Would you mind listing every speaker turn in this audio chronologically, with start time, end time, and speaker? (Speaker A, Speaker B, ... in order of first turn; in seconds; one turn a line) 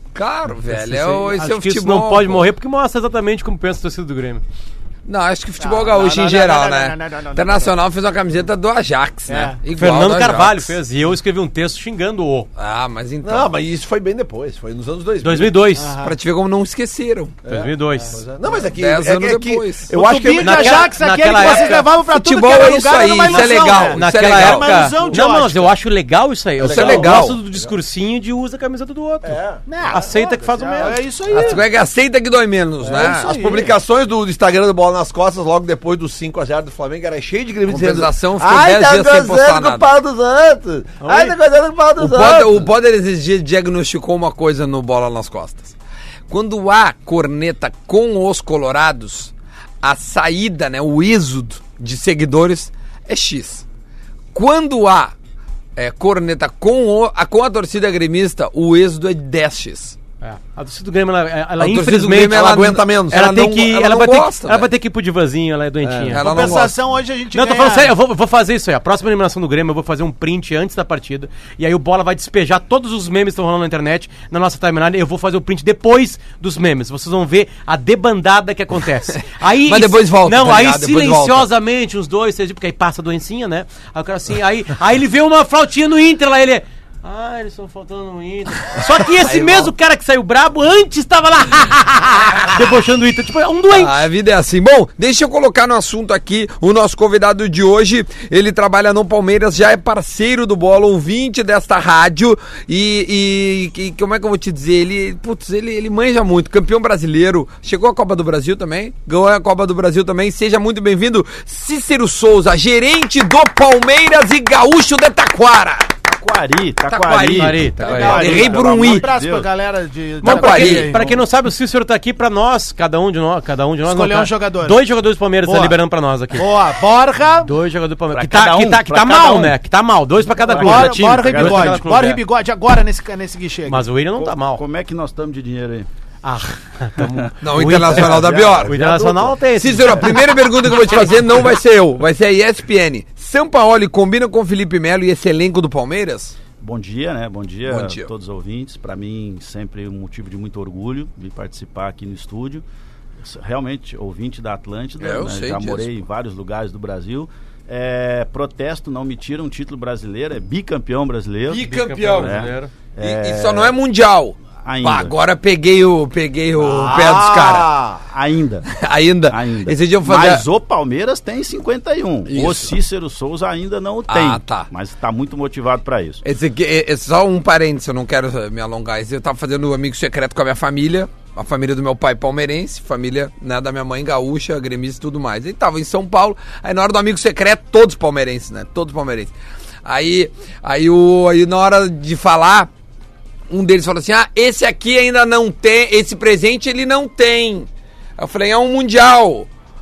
Speaker A: 0.1-2.5
Speaker B: 0.7-4.4
Speaker A: 5.1-10.8
Speaker C: 5.6-7.7
Speaker C: 9.3-9.6
Speaker B: 9.7-12.5
Speaker A: 12.6-13.5
Speaker D: 13.2-15.7
Speaker B: 15.2-16.0
Speaker C: 15.8-16.1
Speaker A: 16.0-17.4
Speaker D: 17.4-21.5
Speaker B: 17.5-18.2
Speaker A: 18.8-19.9
Speaker C: 19.9-25.7
Speaker B: 20.4-21.9
Speaker A: 22.0-25.0
Speaker B: 23.3-31.0
Speaker D: 26.6-27.7
Speaker A: 26.6-27.4
Speaker D: 29.2-30.0
Speaker C: 29.6-31.6
Speaker A: 31.3-33.3
Speaker D: 32.8-42.7
Speaker C: 33.0-33.7
Speaker A: 37.7-39.9
Speaker B: 41.0-41.3
Speaker A: 42.0-45.8
Speaker A: 46.3-53.6
Speaker A: 54.3-55.1
Speaker A: 55.8-60.0
Speaker B: 60.2-66.5
Speaker A: 61.6-64.7
Speaker D: 62.0-63.2
Speaker D: 65.8-66.2
Speaker A: 66.1-66.8
Speaker C: 66.2-67.9
Speaker B: 67.3-94.0
Speaker A: 79.2-81.5
Speaker A: 89.2-89.7
Speaker A: 93.7-115.9
Speaker E: 116.0-119.5
Speaker A: 116.9-119.1
Speaker B: 117.3-118.4
Speaker C: 117.8-121.2
Speaker A: 120.2-120.9
Speaker B: 120.2-126.5
Speaker E: 120.9-121.2
Speaker C: 123.8-124.8
Speaker C: 125.4-125.8
Speaker C: 126.3-127.5
Speaker B: 127.4-132.2
Speaker E: 128.1-129.3
Speaker C: 129.1-129.5
Speaker E: 130.4-131.9
Speaker C: 130.5-133.9
Speaker B: 133.7-134.6
Speaker E: 134.2-135.9
Speaker B: 136.2-140.2
Speaker E: 137.0-139.4
Speaker A: 137.4-138.7
Speaker A: 139.6-146.3
Speaker E: 146.6-152.6
Speaker A: 147.7-148.1
Speaker E: 153.2-163.8
Speaker A: 155.0-155.9
Speaker A: 161.5-162.5
Speaker B: 161.6-162.7
Speaker A: 163.0-167.7
Speaker E: 164.6-165.2
Speaker D: 166.6-168.0
Speaker E: 168.0-168.7
Speaker A: 168.7-170.4
Speaker E: 169.3-176.2
Speaker A: 172.3-172.7
Speaker A: 174.1-174.7
Speaker A: 176.2-189.3
Speaker A: 189.8-192.7
Speaker A: 193.5-199.5